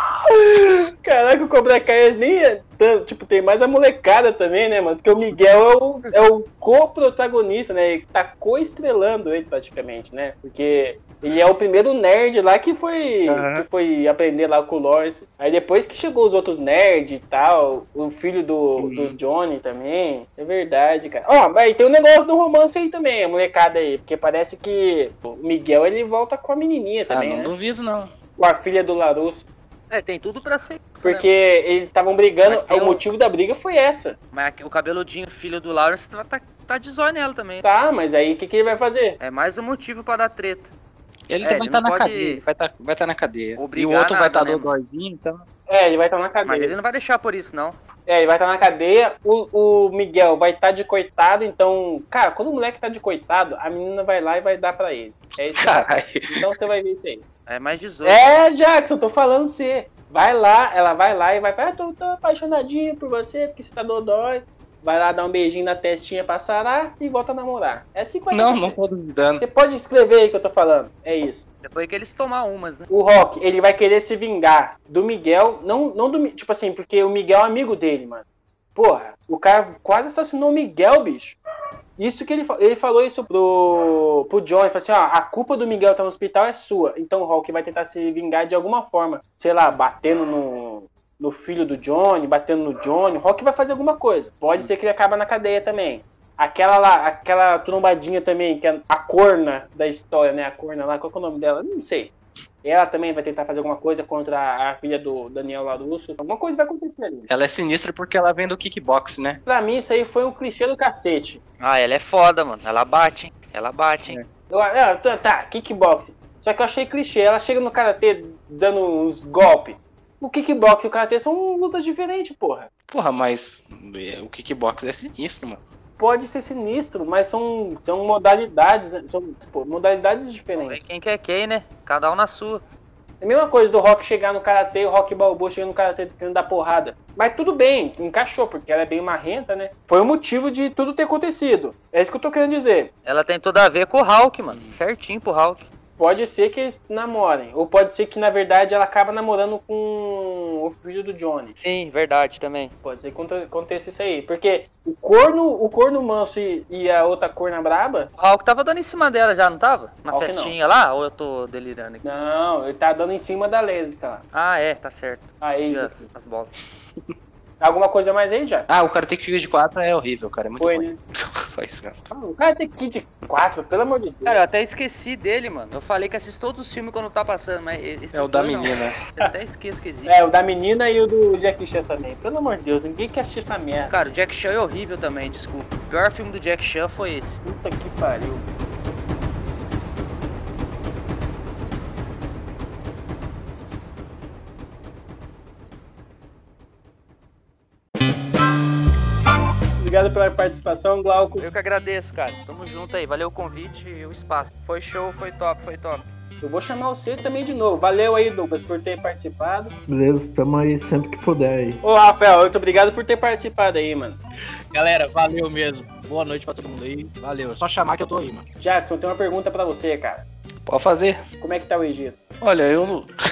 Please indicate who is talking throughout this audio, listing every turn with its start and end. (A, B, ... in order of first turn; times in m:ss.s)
0:00.2-0:27.5 A
0:13.2-0:13.6 B
0:18.8-0:19.2 B
0:27.1-0:28.1 B
0:28.4-0:29.4 A
0:29.9-0:31.3 C
0:31.0-0:34.2 A
0:32.4-0:33.0 C
0:34.3-0:37.6 C
0:37.6-0:39.2 A
0:39.2-0:40.7 C
0:41.3-0:45.4 B
0:41.4-0:42.4 C
0:43.6-0:44.7 C
0:45.7-0:46.7 A
0:46.4-0:47.8 C
0:48.1-0:57.2 A
0:55.5-0:56.4 B
0:57.5-0:58.2 C
0:58.0-1:08.8 A
1:08.3-1:09.4 B
1:09.4-1:11.4 A
1:11.6-1:12.9 C
1:12.9-1:18.2 A
1:18.8-1:21.4 A
1:22.0-1:42.1 A
1:42.6-1:47.3 A
1:47.3-1:49.4 B
1:49.4-1:51.4 A
1:51.6-1:54.2 C
1:54.5-2:02.7 A
2:02.9-2:05.6 B
2:06.0-2:10.9 A
2:10.6-2:12.6 C
2:13.2-2:22.9 A
2:23.0-2:25.6 C
2:24.5-2:24.8 B
2:26.0-2:31.6 A
2:31.6-2:32.7 C
2:32.8-2:38.1 A
2:38.2-2:42.0 C
2:40.1-2:40.5 A
2:42.0-2:44.2 A
2:44.3-2:46.5 C
2:45.4-2:46.1 A
2:47.6-2:48.7 A
2:48.7-2:52.0 B
2:50.6-2:51.0 A
2:52.1-2:54.4 A
2:54.2-3:00.1 C
2:58.1-2:59.0 B
3:00.0-3:03.9 A
3:03.9-3:07.4 C
3:07.4-3:08.4 A
3:19.8-3:21.4 A
3:21.4-3:26.0 C
3:26.4-3:29.7 A
3:29.9-3:31.8 D
3:31.8-3:34.2 A
3:34.7-3:38.4 E
3:38.6-3:40.2 A
3:40.7-3:41.2 B
3:41.4-3:42.2 A
3:42.4-3:43.1 B